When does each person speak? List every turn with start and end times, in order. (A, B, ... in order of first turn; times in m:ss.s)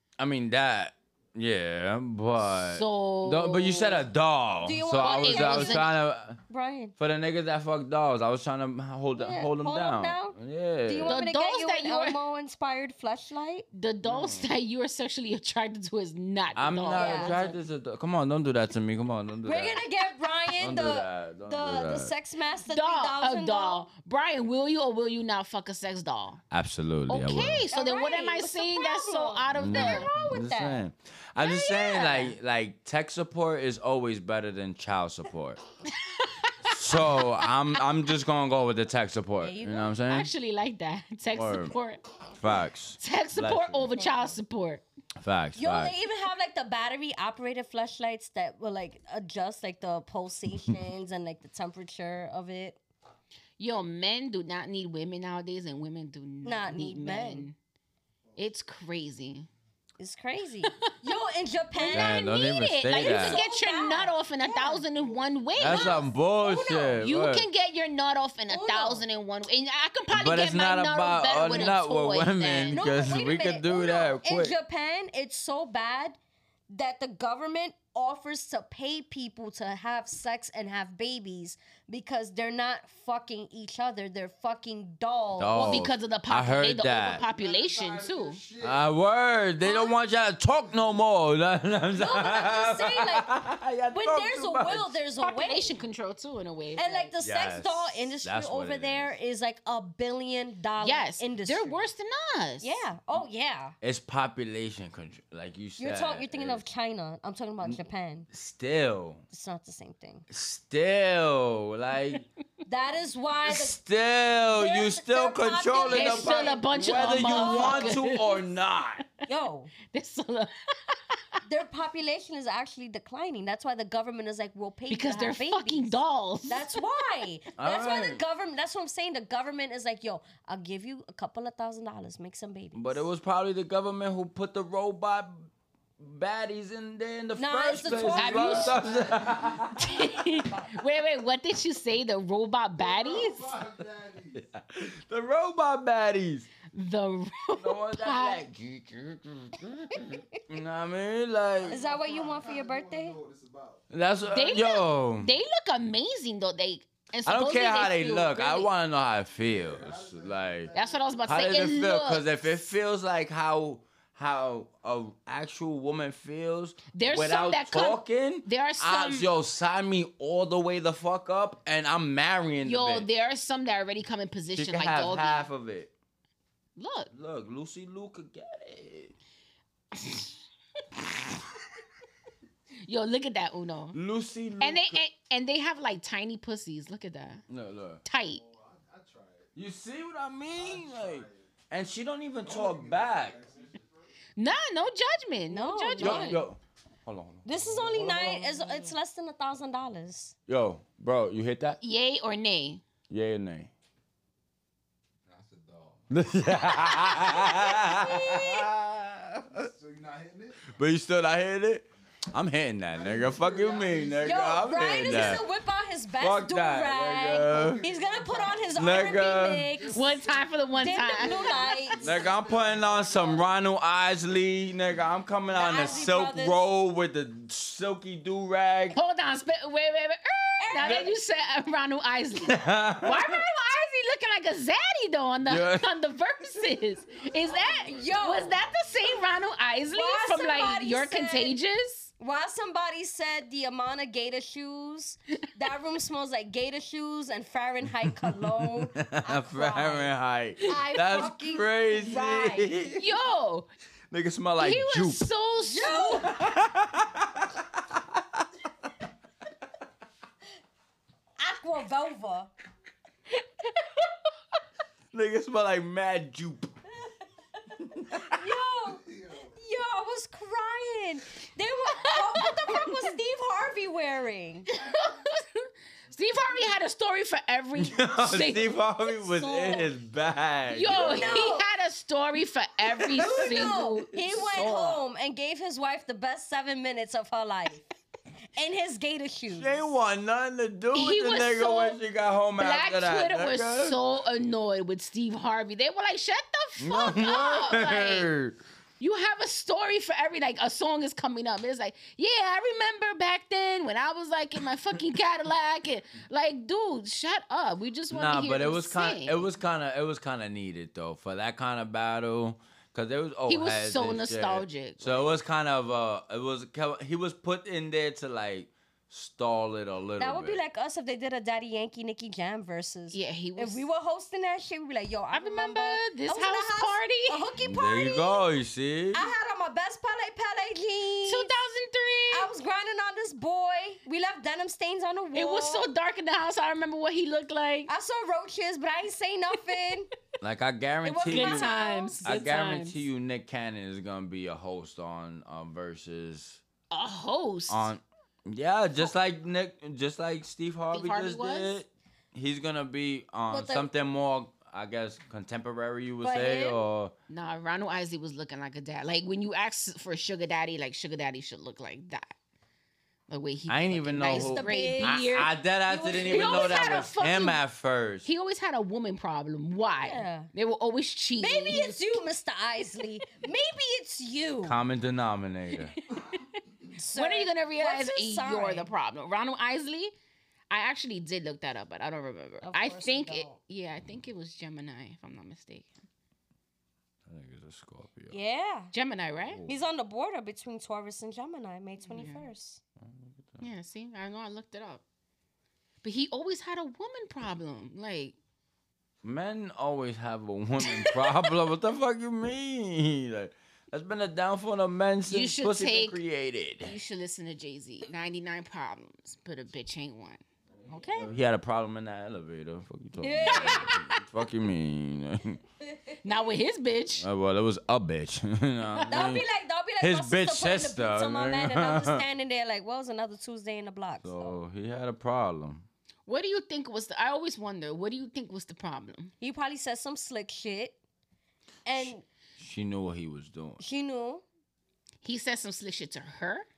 0:00.2-0:06.4 A
0:02.4-0:04.0 B
0:04.6-0:05.9 C
0:05.0-0:05.9 B
0:06.5-0:06.9 C
0:07.0-0:11.2 A
0:09.2-0:13.7 C
0:11.0-0:12.2 B
0:13.7-0:17.6 B
0:14.0-0:14.5 A
0:16.6-0:19.8 A
0:16.9-0:17.4 C
0:19.4-0:23.9 C
0:20.6-0:22.1 A
0:22.6-0:26.4 B
0:26.5-0:27.7 A
0:27.1-0:30.1 B
0:27.7-0:30.8 C
0:29.5-0:35.6 A
0:31.4-0:32.4 B
0:35.8-0:37.3 B
0:36.6-0:40.3 A
0:39.4-0:39.9 C
0:40.0-0:42.0 B
0:41.3-0:41.7 A
0:42.4-0:44.0 A
0:43.0-0:44.8 B
0:45.2-0:45.9 A
0:45.6-0:52.8 C
0:53.6-0:57.6 B
0:56.4-0:57.5 C
0:58.4-0:59.5 B
1:00.0-1:02.3 C
1:00.7-1:00.9 B
1:01.8-1:06.0 B
1:01.9-1:03.4 A
1:02.9-1:04.8 C
1:05.0-1:05.4 D
1:05.6-1:07.4 A
1:05.6-1:07.0 C
1:06.9-1:12.8 B
1:08.5-1:09.0 C
1:10.1-1:14.5 A
1:11.4-1:11.7 C
1:12.7-1:16.2 C
1:16.7-1:25.8 C
1:25.4-1:27.2 A
1:25.5-1:28.4 B
1:27.3-1:28.8 D
1:28.6-1:35.0 A
1:29.6-1:29.9 C
1:30.7-1:31.0 D
1:31.9-1:33.4 C
1:33.9-1:35.8 C
1:35.2-1:37.1 B
1:36.7-1:41.8 C
1:37.2-1:39.2 A
1:40.8-1:42.8 B
1:42.6-1:43.7 C
1:43.8-1:46.6 A
1:45.8-1:48.3 C
1:47.6-1:49.2 A
1:49.3-1:50.2 C
1:50.3-1:52.2 A
1:52.6-1:53.8 C
1:53.4-1:59.0 A
1:54.5-1:58.0 C
1:55.9-1:58.4 B
1:59.2-1:59.7 C
1:59.8-2:01.4 B
2:01.4-2:05.9 C
2:04.9-2:06.9 B
2:06.5-2:13.0 C
2:07.6-2:08.2 A
2:12.7-2:20.2 A
2:17.4-2:18.8 C
2:18.1-2:18.9 B
2:18.4-2:19.8 D
2:19.8-2:23.5 B
2:22.8-2:24.4 D
2:24.4-2:26.5 A
2:26.7-2:28.4 B
2:27.6-2:31.8 A
2:31.6-2:33.8 D
2:31.7-2:33.2 C
2:33.9-2:35.3 A
2:34.3-2:38.7 B
2:37.2-2:40.7 A
2:39.4-2:41.5 D
2:40.7-2:42.6 B
2:41.3-2:53.1 A
2:46.9-2:49.3 B
2:52.6-2:55.5 B
2:54.5-2:55.9 A
2:56.8-2:57.1 B
2:57.1-2:59.1 A
2:59.9-3:00.3 B
3:01.0-3:01.2 B
3:02.8-3:04.0 B
3:03.9-3:05.0 A
3:04.6-3:07.4 B
3:07.5-3:08.0 A
3:08.0-3:08.4 B
3:08.3-3:09.5 D
3:09.5-3:13.4 A
3:10.5-3:11.4 D
3:12.4-3:14.0 D
3:14.4-3:16.4 B
3:15.5-3:16.4 C
3:16.0-3:18.6 A
3:17.4-3:20.3 C
3:20.5-3:21.8 A
3:21.8-3:22.8 B
3:23.1-3:23.7 A
3:25.2-3:27.4 D
3:26.1-3:29.7 A
3:29.5-3:30.7 D
3:30.7-3:35.4 A
3:32.9-3:35.3 D
3:34.2-3:40.2 C
3:36.2-3:37.8 A
3:37.4-3:43.5 D
3:38.7-3:39.7 A
3:39.9-3:41.7 B
3:40.8-3:42.0 C
3:42.0-3:49.0 A
3:45.5-3:46.7 C
3:48.9-4:02.1 B
3:50.6-3:51.1 C
3:50.7-3:51.1 A
3:52.4-3:53.4 A
3:55.4-3:55.9 A
3:57.2-3:58.6 D
3:57.7-3:58.6 C
3:59.9-4:01.6 C
4:02.2-4:13.0 C
4:08.6-4:13.0 A
4:13.0-4:13.7 B
4:14.1-4:15.2 A
4:14.6-4:16.3 B
4:15.6-4:16.4 C
4:16.2-4:18.4 A
4:21.4-4:22.5 C
4:25.1-4:26.7 A
4:27.8-4:28.4 A
4:28.2-4:34.8 C
4:28.9-4:29.5 D
4:31.9-4:33.0 B
4:34.9-4:38.7 B
4:37.8-4:41.5 A
4:39.0-4:39.9 C
4:40.7-4:45.0 B
4:40.9-4:41.7 C
4:42.8-4:43.8 A
4:43.2-4:47.8 C
4:48.5-4:49.8 C
4:49.5-4:54.0 A
4:50.9-4:52.0 B
4:52.6-4:58.3 B
4:56.8-4:58.6 A
4:59.0-5:09.5 B
5:08.1-5:20.6 A
5:13.5-5:15.4 B
5:20.2-5:28.4 C
5:23.1-5:23.8 B
5:25.3-5:27.4 B
5:27.6-5:29.3 A
5:29.1-5:31.5 C
5:31.2-5:32.5 B
5:32.3-5:35.9 C
5:35.3-5:37.9 B
5:37.9-5:40.1 C
5:40.4-5:41.7 A
5:41.0-5:42.2 C
5:41.3-5:43.0 B
5:42.2-5:46.6 A
5:46.9-5:47.9 B
5:47.7-5:57.1 A
5:50.9-5:51.8 B
5:53.5-5:53.8 C
5:56.2-5:56.8 C
5:57.3-6:02.3 B
6:03.3-6:05.5 B
6:03.7-6:08.3 A
6:04.3-6:07.1 C
6:06.2-6:07.6 B
6:08.2-6:12.2 B
6:09.8-6:10.5 C
6:11.4-6:14.8 C
6:14.6-6:16.0 A
6:15.9-6:16.4 B
6:17.0-6:18.9 C
6:17.1-6:20.1 B
6:20.7-6:25.9 B
6:22.6-6:23.6 C
6:27.3-6:28.4 A
6:28.3-6:28.9 C
6:28.9-6:29.6 B
6:29.5-6:29.8 A
6:29.6-6:32.8 C
6:32.1-6:32.4 B
6:33.0-6:33.6 A
6:33.6-6:35.0 B
6:36.0-6:38.4 B
6:39.2-6:46.9 A
6:45.3-6:46.2 B
6:46.8-6:51.3 B
6:51.1-6:55.6 A
6:53.2-6:54.0 C
6:53.4-6:54.0 B
6:55.8-6:56.3 C
6:56.2-6:57.2 B
6:57.2-6:59.4 A
6:59.0-6:59.2 B
6:59.1-7:04.6 C
7:00.0-7:02.2 A
7:04.2-7:05.8 A
7:06.2-7:09.3 B
7:09.4-7:11.0 C
7:11.8-7:12.2 C
7:11.9-7:13.8 A
7:13.8-7:14.4 C
7:15.2-7:16.7 B